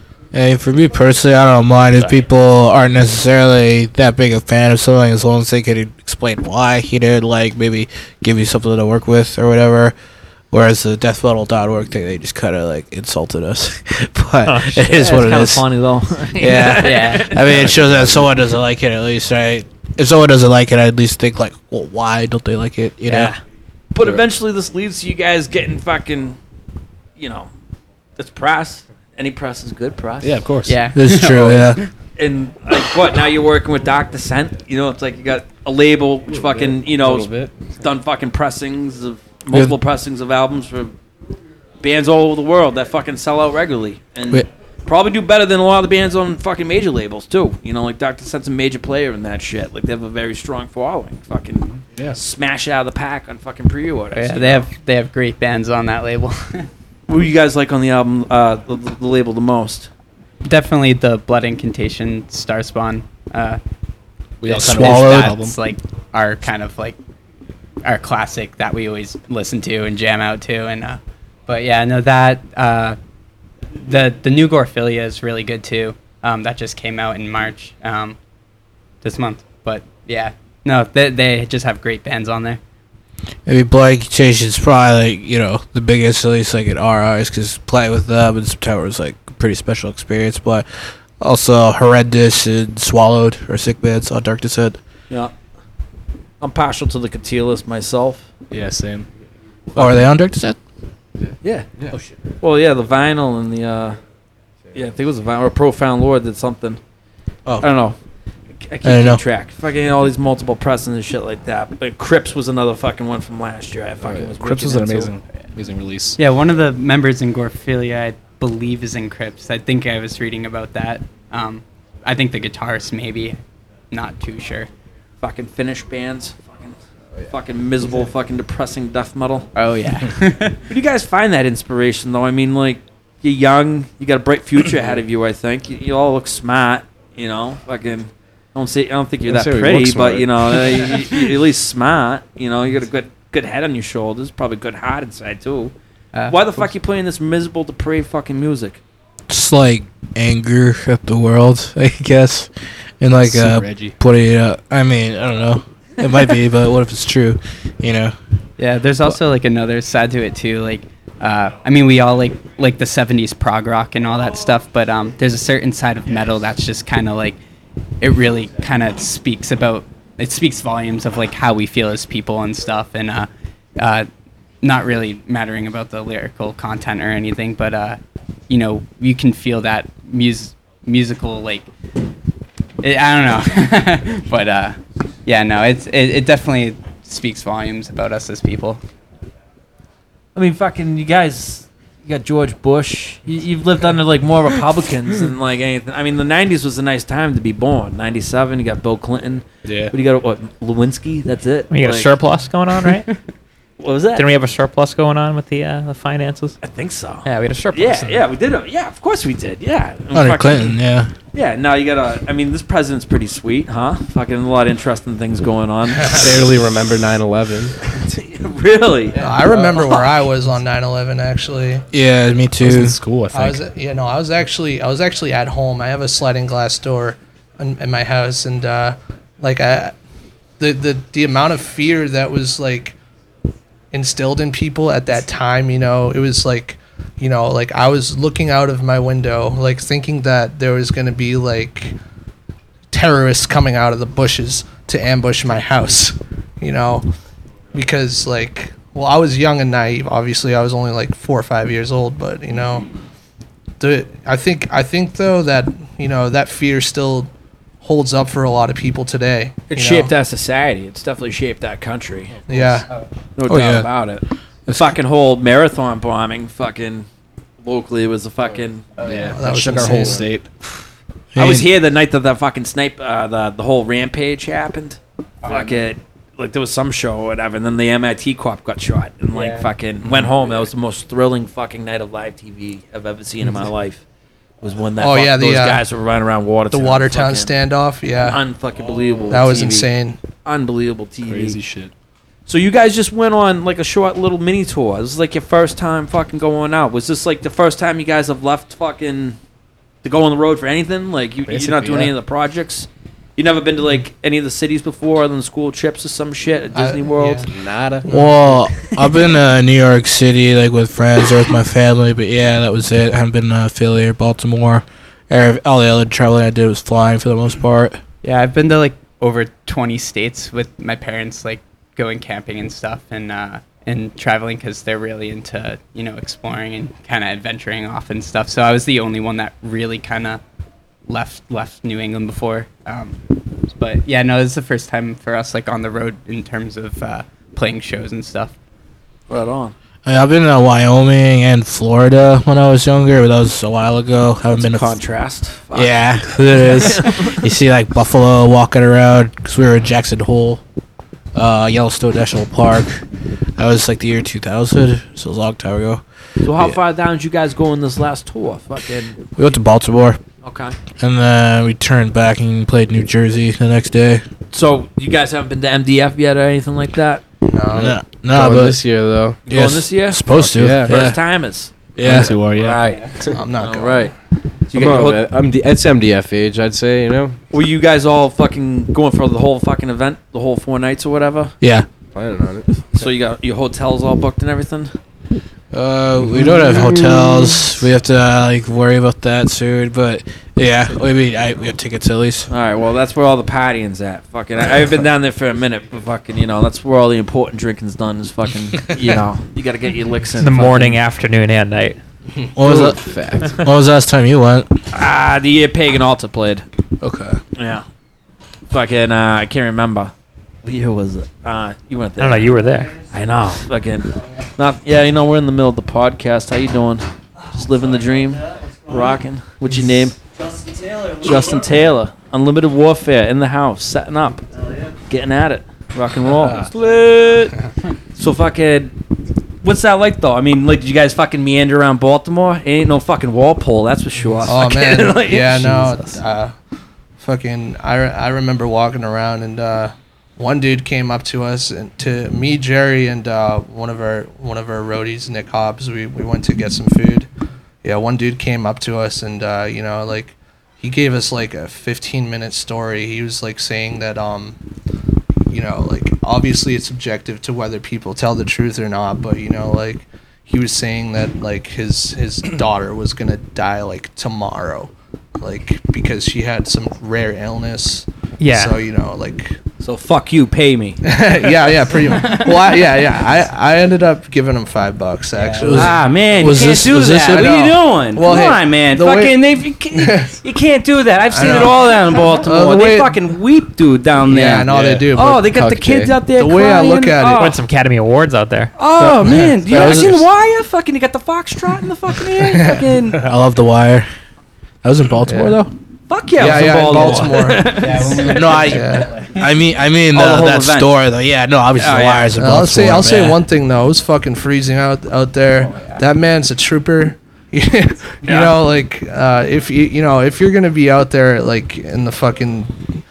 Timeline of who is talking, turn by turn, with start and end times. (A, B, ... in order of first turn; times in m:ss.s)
0:00.3-0:10.0 A
0:10.5-0:15.7 A
0:14.5-0:17.0 B
0:15.0-0:15.4 C
0:16.2-0:17.7 C
0:16.4-0:23.4 A
0:16.8-0:17.3 D
0:23.1-0:23.3 D
0:23.9-0:26.4 C
0:27.2-0:27.5 C
0:28.2-0:30.4 C
0:30.2-0:30.8 E
0:30.7-0:31.9 D
0:31.0-0:31.8 A
0:32.2-0:40.9 C
0:36.3-0:37.6 F
0:41.8-0:54.7 C
0:54.1-0:56.7 D
0:57.1-0:59.9 C
1:00.4-1:03.6 D
1:04.4-1:05.6 E
1:04.5-1:07.0 D
1:04.5-1:05.4 A
1:07.8-1:13.0 D
1:13.8-1:18.2 D
1:19.0-1:22.6 D
1:23.5-1:30.7 A
1:31.2-1:34.8 A
1:36.4-1:38.2 C
1:38.5-1:39.1 E
1:39.8-1:40.6 A
1:42.4-1:44.0 C
1:44.7-1:46.8 C
1:47.6-1:48.0 C
1:48.6-1:55.1 C
1:48.8-1:49.2 A
1:54.4-1:56.2 E
1:56.2-2:03.4 D
2:03.9-2:04.7 D
2:05.2-2:09.5 C
2:09.6-2:10.6 D
2:10.7-2:25.7 C
2:19.3-2:20.8 F
2:26.1-2:26.7 D
2:26.3-2:28.8 C
2:29.3-2:38.2 A
2:33.2-2:33.9 E
2:38.6-2:47.4 D
2:48.0-2:54.1 D
2:54.6-3:01.7 D
3:02.8-3:08.8 D
3:10.4-3:22.2 C
3:19.6-3:19.9 E
3:21.7-3:23.1 B
3:23.8-3:24.3 C
3:24.1-3:26.6 B
3:26.6-3:30.8 C
3:27.2-3:28.2 B
3:30.1-3:31.1 A
3:31.3-3:36.4 C
3:36.1-3:37.8 F
3:37.9-3:40.1 C
3:39.2-3:41.8 G
3:41.9-3:43.0 A
3:42.6-3:43.6 E
3:43.3-3:49.9 G
3:50.6-3:53.0 G
3:53.9-4:02.0 G
4:02.9-4:07.1 G
4:07.7-4:12.9 G
4:13.8-4:17.3 G
4:17.8-4:20.1 G
4:19.7-4:22.4 C
4:22.5-4:22.9 G
4:23.4-4:27.1 C
4:23.5-4:23.9 A
4:27.6-4:28.8 C
4:29.0-4:30.7 E
4:29.3-4:30.3 G
4:31.3-4:31.7 A
4:31.4-4:44.0 C
4:35.4-4:35.8 D
4:39.3-4:39.6 D
4:44.6-4:47.5 C
4:45.0-4:45.8 G
4:46.7-4:48.4 G
4:48.2-4:49.9 C
4:49.3-4:50.2 G
4:50.4-4:51.6 C
4:51.3-4:51.9 E
4:52.5-4:59.4 C
5:00.0-5:07.5 C
5:01.5-5:02.0 E
5:06.7-5:07.4 G
5:07.5-5:08.1 F
5:08.0-5:08.7 G
5:08.1-5:18.0 A
5:18.2-5:30.4 D
5:31.1-5:38.5 D
5:39.3-5:39.7 C
5:40.0-5:45.0 A
5:44.5-5:47.4 C
5:45.7-5:50.6 A
5:51.4-5:53.0 A
5:53.6-5:56.7 A
5:56.4-5:59.2 C
5:59.4-6:00.2 A
6:00.4-6:00.8 C
6:01.0-6:04.2 A
6:04.5-6:07.2 C
6:07.4-6:08.0 G
6:07.7-6:08.8 A
6:07.8-6:09.4 F
6:09.5-6:10.2 C
6:09.5-6:11.2 A
6:10.3-6:11.0 F
6:10.8-6:11.7 C
6:12.0-6:12.4 A
6:12.0-6:12.8 E
6:12.6-6:13.0 C
6:12.7-6:13.0 F
6:13.3-6:14.1 G
6:13.6-6:14.2 C
6:14.7-6:15.3 C
6:14.7-6:17.4 F
6:17.5-6:21.5 C
6:21.6-6:21.9 A
6:22.2-6:22.7 F
6:22.9-6:24.9 C
6:25.7-6:32.5 A
6:32.5-6:41.0 C
6:40.4-6:42.0 B
6:42.6-6:44.7 A
6:42.6-6:43.6 F
6:44.9-6:46.6 C
6:47.0-6:47.4 A
6:47.6-6:47.8 C
6:48.7-7:00.2 C
6:52.2-6:52.9 B
7:01.0-7:04.4 C
7:05.1-7:07.6 C
7:08.2-7:08.9 C
7:09.6-7:15.8 C
7:14.5-7:16.5 G
7:17.2-7:27.3 G
7:27.8-7:34.6 G
7:35.5-7:49.6 G
7:48.4-7:48.8 B
7:49.8-7:51.0 C
7:51.0-7:56.0 G
7:55.4-7:57.8 A
7:55.6-8:07.6 C
7:58.1-8:00.4 G
8:01.3-8:03.4 G
8:04.3-8:05.5 G
8:05.4-8:06.2 F
8:06.3-8:07.6 G
8:07.4-8:08.7 B
8:08.8-8:13.2 C
8:09.0-8:10.3 A
8:13.1-8:14.1 A
8:14.8-8:15.7 A
8:15.3-8:15.6 G
8:16.1-8:18.5 C
8:16.4-8:18.0 G
8:18.1-8:23.4 A
8:18.6-8:19.2 G
8:20.1-8:21.0 C
8:21.8-8:22.3 C
8:22.4-8:33.0 G
8:28.2-8:28.6 C